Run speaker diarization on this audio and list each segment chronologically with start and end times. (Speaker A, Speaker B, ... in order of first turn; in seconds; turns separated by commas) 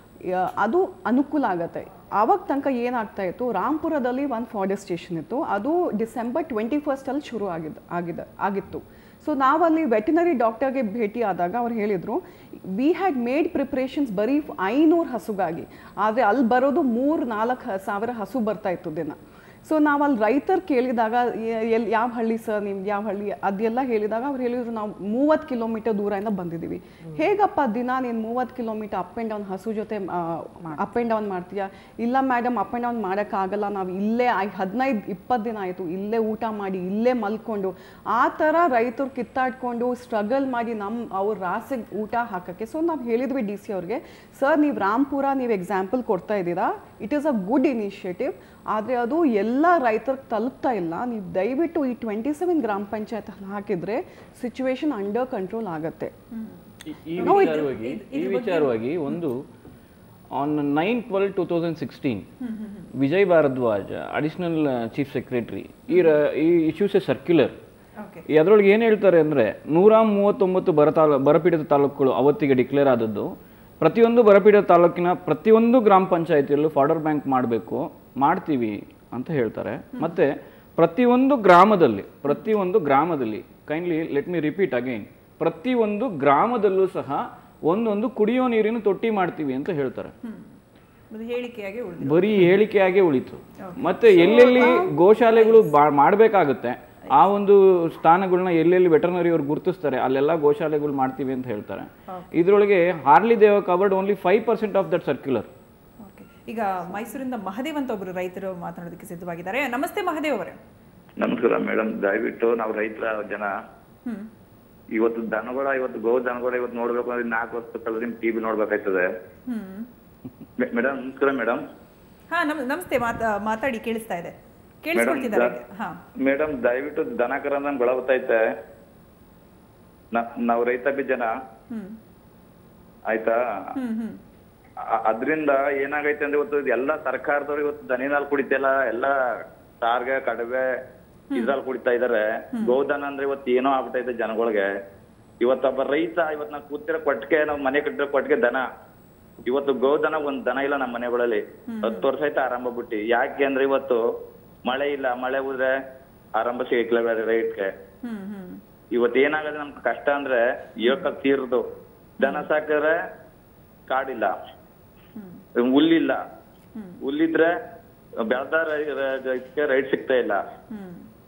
Speaker A: 0.2-56.1, Speaker B: 56.3-59.2, Speaker C: 56.9-59.4, Speaker A: 57.2-57.6, Speaker C: 60.4-62.3, Speaker B: 62.4-62.9, Speaker C: 63.0-67.6, Speaker B: 65.9-66.2, Speaker B: 68.0-68.3, Speaker C: 68.3-90.1, Speaker B: 80.0-80.2, Speaker B: 90.2-90.6, Speaker B: 91.1-92.5, Speaker C: 92.0-105.5, Speaker B: 93.6-95.7, Speaker A: 94.2-94.9, Speaker B: 102.1-102.3, Speaker B: 106.0-110.6, Speaker D: 111.2-113.5, Speaker D: 115.0-119.1, Speaker B: 119.5-119.9, Speaker D: 120.6-121.6, Speaker B: 122.3-126.0, Speaker D: 124.9-125.5, Speaker D: 126.2-128.4, Speaker D: 130.1-131.3, Speaker B: 131.7-132.0, Speaker D: 133.1-133.4, Speaker B: 133.8-134.2, Speaker D: 135.1-139.1, Speaker D: 139.8-140.7, Speaker B: 141.3-141.6, Speaker D: 141.3-144.7, Speaker D: 145.4-148.6, Speaker D: 149.5-154.0, Speaker B: 151.7-152.1, Speaker D: 154.7-155.7, Speaker D: 156.4-157.7, Speaker B: 158.0-158.6, Speaker D: 159.0-161.6, Speaker B: 160.8-161.1, Speaker B: 162.2-162.5, Speaker D: 162.2-162.9, Speaker D: 163.9-164.3, Speaker B: 165.2-165.4, Speaker D: 165.6-166.2, Speaker B: 166.8-167.0, Speaker D: 167.1-167.5, Speaker D: 168.3-170.4, Speaker B: 170.7-171.1